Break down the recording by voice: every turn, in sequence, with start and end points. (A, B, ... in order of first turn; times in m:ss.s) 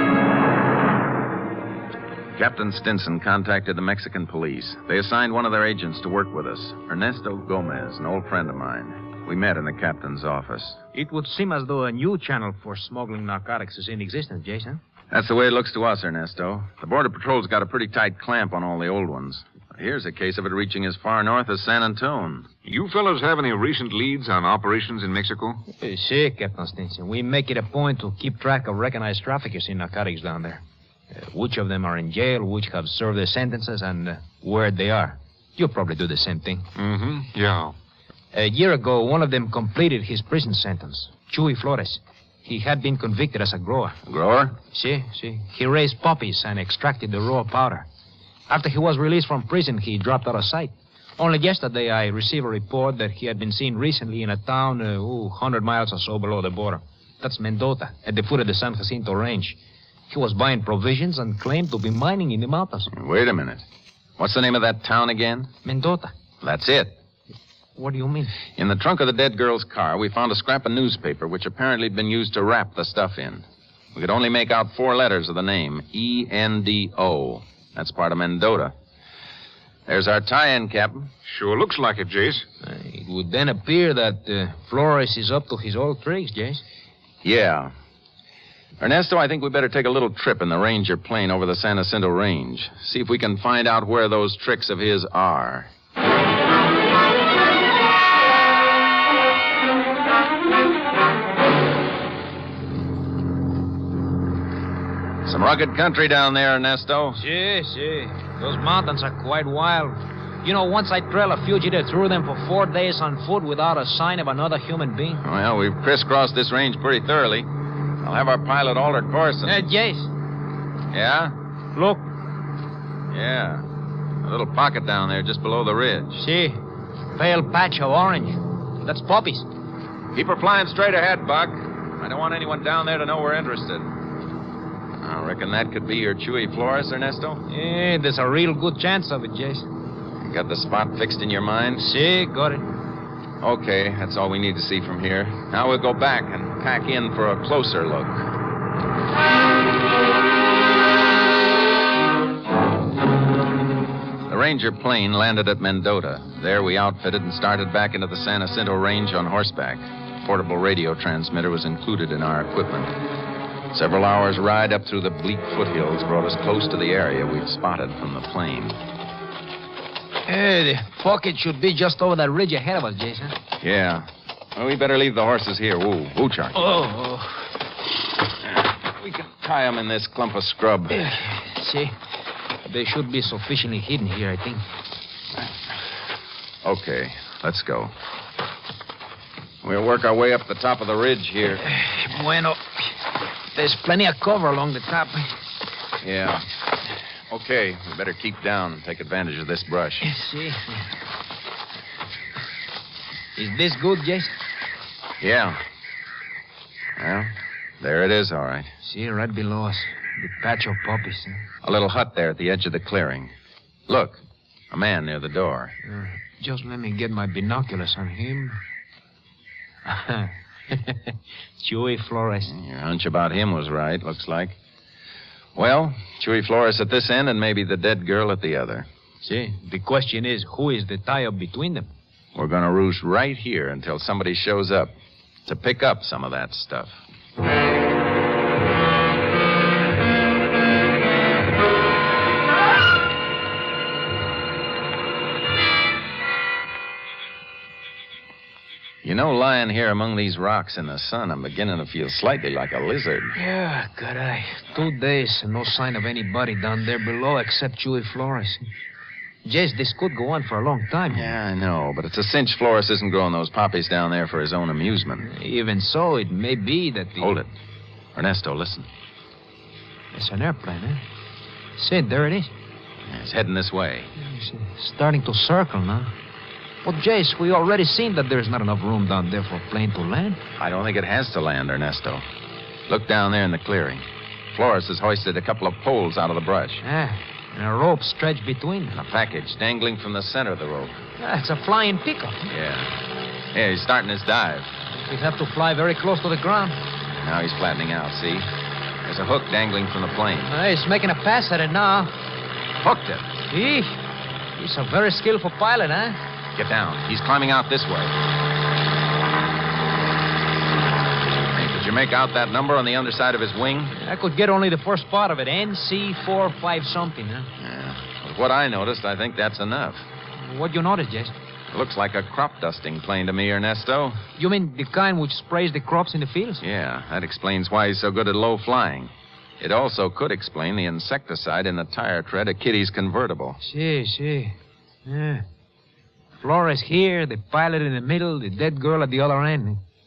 0:02.4-0:10.8 A
0:10.9-0:14.8 B
0:15.1-0:22.5 A
0:22.6-0:25.6 C
0:25.8-0:30.6 B
0:31.1-0:36.7 B
0:36.8-0:37.7 C
0:38.3-0:44.0 B
0:44.0-0:44.5 A
0:44.7-0:47.8 B
0:48.5-0:59.6 B
1:00.1-1:02.9 B
1:02.9-1:03.6 A
1:04.2-1:05.5 A
1:05.6-1:06.1 B
1:06.4-1:07.0 A
1:07.8-1:08.4 B
1:08.6-1:18.7 A
1:19.9-1:21.1 A
1:21.2-1:22.4 C
1:22.6-1:26.6 B
1:27.2-1:27.7 A
1:28.8-1:35.7 A
1:45.2-1:47.2 A
1:47.2-1:55.2 B
1:55.2-1:57.5 A
1:58.0-1:59.6 A
1:59.4-2:00.1 B
2:00.9-2:01.3 A
2:01.7-2:02.0 B
2:03.1-2:03.6 A
2:04.2-2:06.2 A
2:06.2-2:06.6 B
2:07.1-2:09.5 B
2:10.1-2:14.0 A
2:15.0-2:17.4 A
2:17.5-2:19.6 B
2:20.2-2:21.8 A
2:21.8-2:22.7 B
2:23.4-2:28.2 A
2:34.3-2:43.0 A
2:43.7-2:48.8 A
2:50.2-2:53.4 B
2:53.6-2:56.7 A
2:56.6-2:57.4 B
2:59.0-3:01.1 A
3:00.9-3:01.9 B
3:02.6-3:04.6 B
3:06.6-3:07.9 A
3:09.6-3:11.7 A
3:11.6-3:13.0 B
3:13.5-3:15.3 B
3:16.0-3:16.4 A
3:17.3-3:20.1 A
3:20.0-3:20.8 B
3:23.4-3:24.3 B
3:25.2-3:25.6 A
3:27.0-3:28.7 A
3:28.8-3:31.4 B
3:31.6-3:33.3 A
3:33.9-3:35.7 A
3:35.9-3:38.6 B
3:39.8-3:42.5 B
3:42.5-3:44.6 A
3:45.5-3:48.9 A
3:49.2-3:51.9 B
3:52.3-3:54.9 A
3:55.4-3:57.0 A
4:09.0-4:13.3 A
4:13.4-4:18.6 B
4:19.4-4:21.3 B
4:21.1-4:25.3 A
4:25.2-4:27.3 B
4:27.2-4:27.5 A
4:28.1-4:28.9 A
4:30.1-4:31.0 B
4:31.8-4:32.5 B
4:33.0-4:34.1 A
4:34.2-4:36.1 B
4:36.8-4:40.4 B
4:40.6-4:42.2 A
4:42.9-4:46.8 A
4:46.8-4:49.0 B
4:48.9-4:51.0 A
4:51.2-4:52.4 B
4:52.5-4:52.9 A
4:53.5-4:54.7 A
4:54.9-4:56.8 B
4:57.1-4:58.5 A
4:59.0-5:00.5 A
5:00.5-5:02.1 B
5:02.8-5:03.3 A
5:03.5-5:04.0 B
5:04.6-5:06.2 B
5:06.6-5:08.1 A
5:11.5-5:13.9 A
5:13.9-5:17.5 B
5:17.6-5:20.0 A
5:20.4-5:21.3 B
5:21.7-5:24.2 A
5:24.4-5:26.6 B
5:26.6-5:33.6 A
5:33.6-5:35.4 B
5:36.4-5:39.8 B